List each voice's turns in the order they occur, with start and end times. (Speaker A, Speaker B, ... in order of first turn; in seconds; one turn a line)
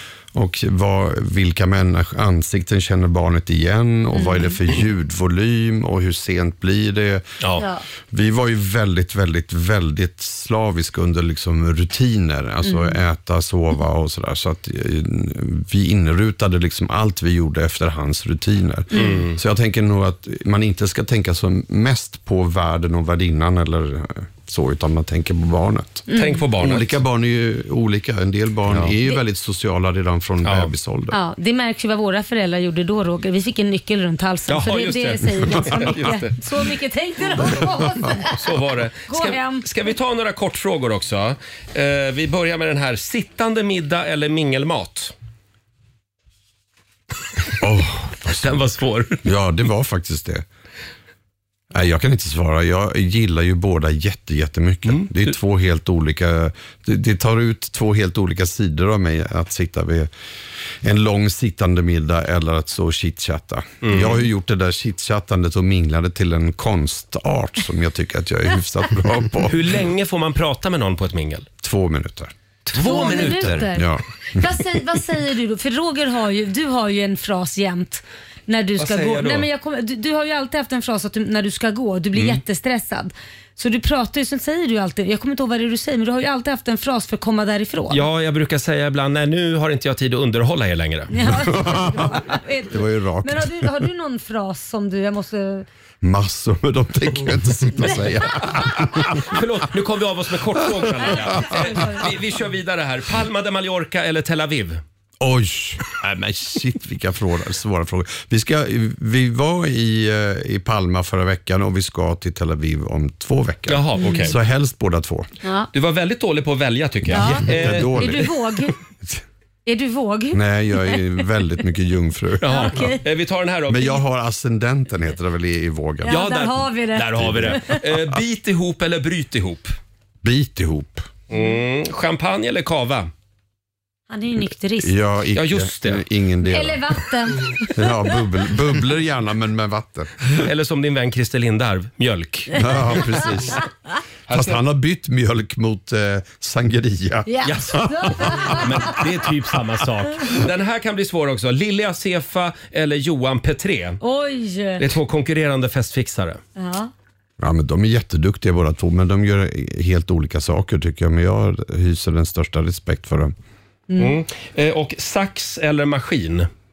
Speaker A: 0.3-7.2
Speaker B: 4.1-4.5
Speaker B: 7.6-7.8
Speaker A: 8.1-31.1
Speaker B: 12.6-13.0
Speaker B: 18.9-19.2
Speaker C: 18.9-19.4
Speaker B: 26.1-26.4
Speaker C: 26.1-27.0
Speaker C: 30.4-30.7
Speaker B: 31.1-38.4
Speaker C: 34.5-36.4
Speaker C: 38.3-45.1
Speaker B: 39.1-39.7
Speaker A: 47.6-48.6
Speaker C: 48.3-49.2
Speaker A: 49.2-50.4
Speaker A: 51.7-60.1
Speaker C: 54.9-55.3
Speaker A: 60.8-69.7
Speaker C: 63.8-64.2
Speaker C: 69.5-71.5
Speaker A: 71.6-74.5
Speaker C: 72.7-73.7
Speaker B: 72.8-88.0
Speaker C: 78.8-79.5
Speaker C: 87.9-91.1
Speaker B: 91.1-95.7
Speaker A: 91.3-93.7
Speaker A: 96.0-99.4
Speaker C: 99.1-104.8
Speaker A: 100.5-100.8
Speaker B: 101.0-102.1
Speaker A: 105.2-115.3
Speaker C: 113.7-114.4
Speaker B: 114.0-114.3
Speaker B: 115.4-115.7
Speaker C: 115.7-118.3
Speaker A: 117.1-118.3
Speaker B: 117.1-118.7
Speaker B: 119.7-121.2
Speaker A: 120.3-122.7
Speaker C: 122.4-124.0
Speaker B: 122.4-123.0
Speaker A: 123.7-126.2
Speaker B: 126.0-127.8
Speaker C: 126.1-129.7
Speaker A: 127.2-128.2
Speaker A: 130.2-131.1
Speaker C: 131.3-133.1
Speaker B: 134.1-135.0
Speaker A: 134.8-137.0
Speaker C: 135.3-136.0
Speaker B: 136.4-138.2
Speaker A: 137.7-140.4
Speaker C: 140.4-143.0
Speaker A: 142.5-143.6
Speaker C: 144.3-144.6
Speaker A: 144.3-149.3
Speaker B: 147.2-149.0
Speaker C: 147.4-154.0
Speaker B: 154.0-154.8
Speaker C: 154.8-156.4
Speaker B: 156.6-156.9
Speaker A: 157.4-163.3
Speaker B: 163.9-164.2
Speaker C: 164.0-166.5